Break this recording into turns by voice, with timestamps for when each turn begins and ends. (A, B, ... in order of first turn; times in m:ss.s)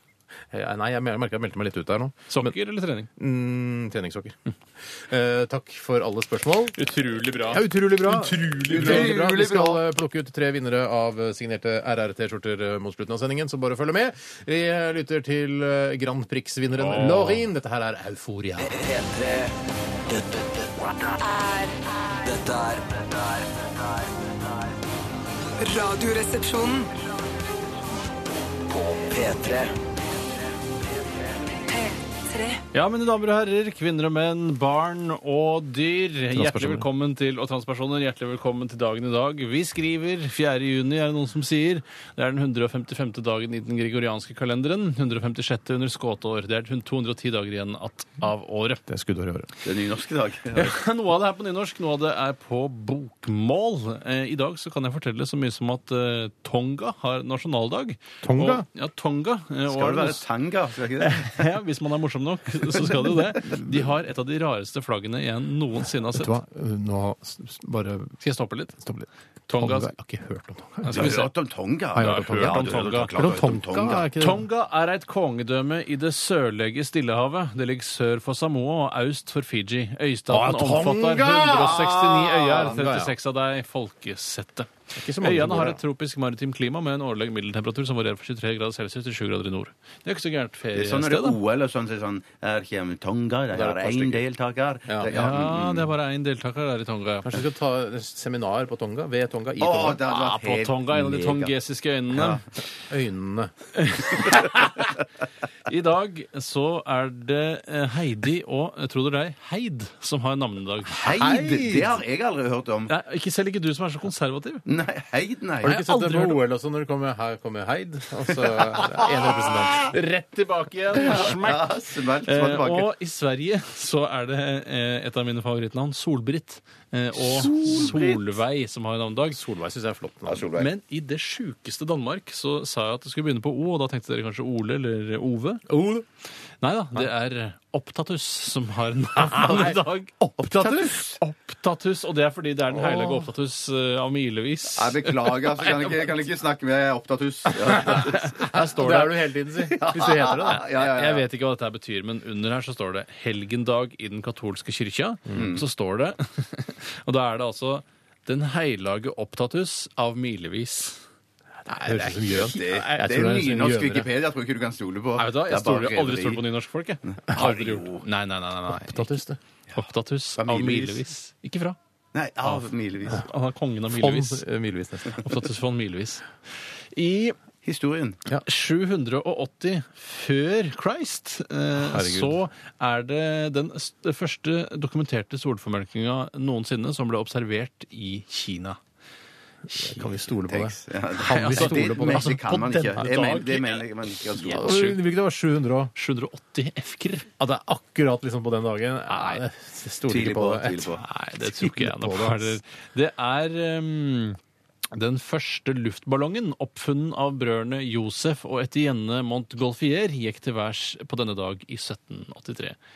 0:00.5-0:02.6 A
0:02.3-0:03.1 B
0:03.2-0:04.4 A
0:04.9-0:06.8 A
0:06.7-0:09.2 B
0:07.5-0:18.9 A
0:08.5-0:09.8 C
0:16.7-0:17.5 B
0:19.0-0:19.5 D
0:21.0-0:23.1 D
0:25.6-0:26.9 D
0:29.0-0:29.7 D
0:31.7-0:32.6 D
0:32.7-0:48.8 B
0:36.3-0:36.9 A
0:48.9-0:49.5 A
0:49.6-0:50.7 C
0:50.5-1:00.2 B
0:58.2-0:58.6 A
0:59.7-1:01.5 C
1:01.0-1:06.3 B
1:06.1-1:08.2 A
1:08.2-1:08.8 B
1:08.8-1:11.2 A
1:09.5-1:09.9 B
1:10.8-1:11.3 B
1:10.9-1:14.1 C
1:11.9-1:14.4 A
1:12.0-1:13.1 B
1:14.2-1:31.4 B
1:20.3-1:21.8 A
1:21.4-1:22.7 C
1:22.6-1:23.1 A
1:25.0-1:25.8 A
1:30.7-1:35.9 C
1:33.5-1:34.2 A
1:35.1-1:37.4 B
1:37.2-1:40.1 A
1:39.6-1:41.5 C
1:40.1-1:42.4 B
1:42.9-1:43.5 A
1:43.7-1:44.9 B
1:45.6-1:51.0 B
1:50.9-1:52.9 C
1:51.0-1:52.0 A
1:52.9-1:54.6 B
1:54.6-1:55.8 C
1:55.6-1:56.4 B
1:55.6-1:59.9 A
1:59.8-2:09.4 B
2:01.0-2:02.9 C
2:07.2-2:08.2 A
2:09.3-2:10.4 A
2:10.2-2:10.7 C
2:10.6-2:15.7 B
2:15.7-2:16.0 A
2:16.6-2:26.1 B
2:19.2-2:21.1 A
2:22.8-2:23.1 A
2:24.7-2:28.5 C
2:27.5-2:30.6 A
2:27.8-2:29.3 B
2:29.7-2:31.2 C
2:30.4-2:41.0 B
2:35.3-2:35.6 C
2:41.7-2:44.1 A
2:41.7-2:42.6 B
2:42.3-2:46.4 C
2:45.2-2:49.2 B
2:47.0-2:48.0 C
2:48.7-2:49.4 A
2:49.7-2:51.8 B
2:50.4-2:51.0 C
2:52.1-2:53.3 C
2:53.1-2:54.4 B
2:53.9-2:55.2 A
2:55.0-2:56.2 B
2:56.9-2:57.4 B
2:57.6-2:58.2 C
2:58.4-3:08.8 B
3:01.8-3:02.4 A
3:09.7-3:13.0 A
3:10.4-3:14.9 C
3:11.2-3:15.0 B
3:14.4-3:15.9 A
3:15.9-3:17.3 B
3:17.4-3:20.8 A
3:19.1-3:19.4 B
3:20.1-3:21.0 C
3:21.0-3:24.4 B
3:21.4-3:22.6 A
3:24.9-3:32.8 B